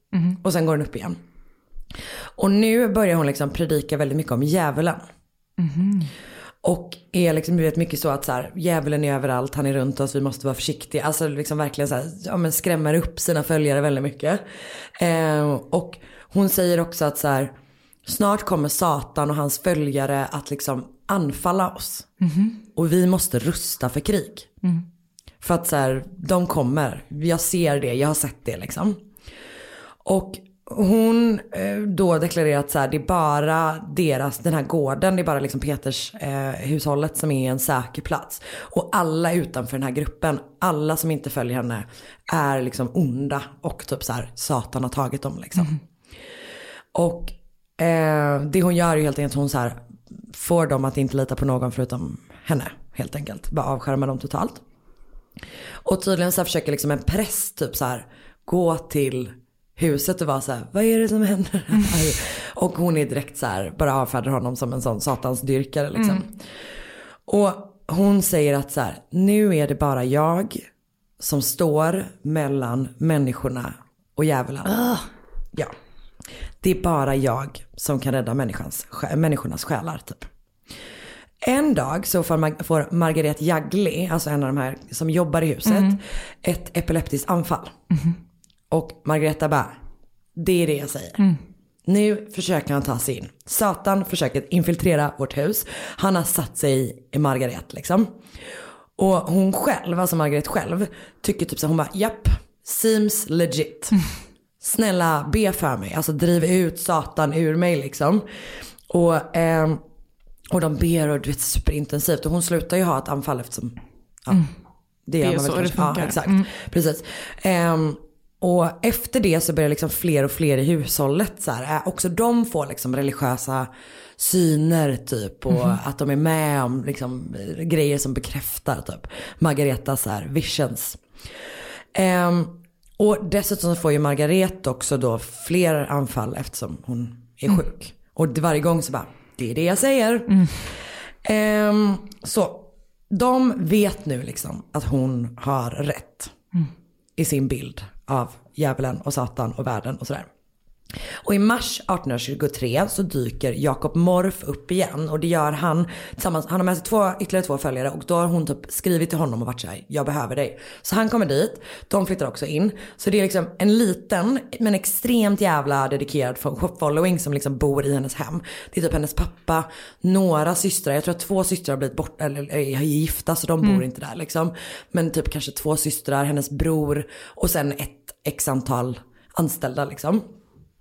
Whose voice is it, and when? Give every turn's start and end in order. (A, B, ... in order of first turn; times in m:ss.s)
0:00.4-0:01.2 A
0:02.4-0:05.0 A
0:05.6-0:06.1 B
0:06.6-0:14.4 A
0:14.9-0:17.5 A
0:18.0-0:22.1 A
0:22.2-0:22.6 B
0:22.8-0:24.5 A
0:25.4-0:29.0 A
0:30.0-0:45.8 A
0:46.9-0:54.6 A
0:55.8-1:06.3 A
1:07.3-1:10.6 A
1:11.2-1:14.9 A
1:14.7-1:15.0 B
1:16.6-1:20.3 A
1:21.4-1:27.7 A
1:25.6-1:25.9 B
1:28.7-1:29.7 A
1:30.4-1:31.2 A
1:31.8-1:38.1 A
1:39.0-1:44.0 A
1:44.6-1:48.2 A
1:48.9-1:49.8 A
1:50.5-1:54.4 A
1:55.1-2:11.0 A
1:55.2-1:56.4 B
2:11.9-2:20.6 A
2:21.2-2:26.3 A
2:27.2-2:30.3 A
2:31.2-3:00.2 A